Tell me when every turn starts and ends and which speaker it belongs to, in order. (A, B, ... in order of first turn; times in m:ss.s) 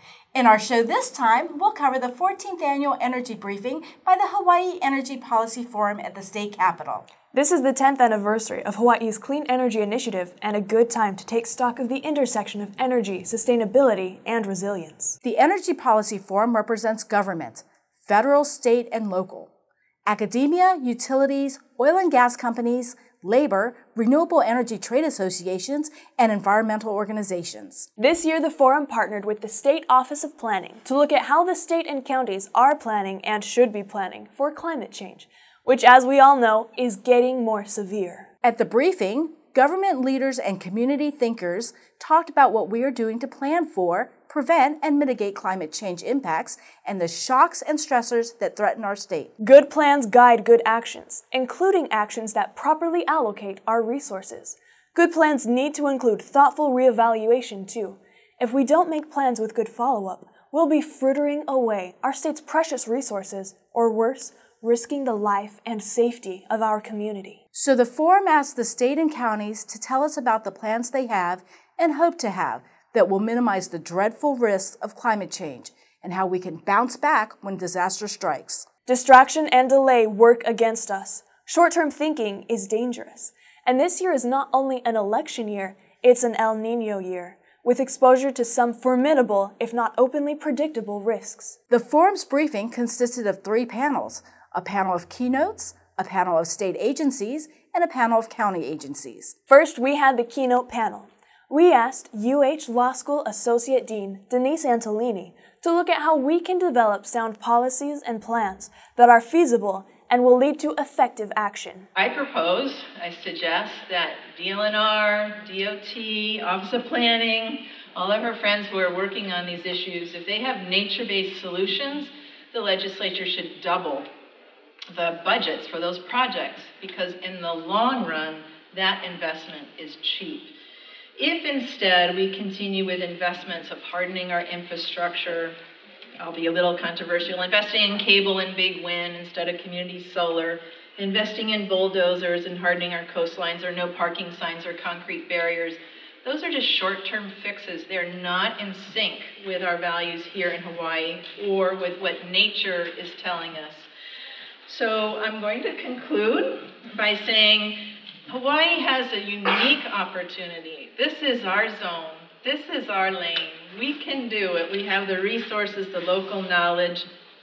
0:00.3-0:07.1 A
0:07.3-0:15.2 B
0:15.2-0:19.5 A
0:20.0-0:27.9 A
0:28.0-0:38.3 B
0:38.4-0:49.3 A
0:49.4-1:07.4 B
1:07.5-1:18.7 A
1:18.9-1:31.6 B
1:31.7-1:39.4 A
1:39.5-1:51.9 B
1:52.0-2:04.1 C
2:04.9-2:10.5 C
2:11.2-2:15.6 C
2:16.2-2:33.9 C
2:34.7-2:47.1 C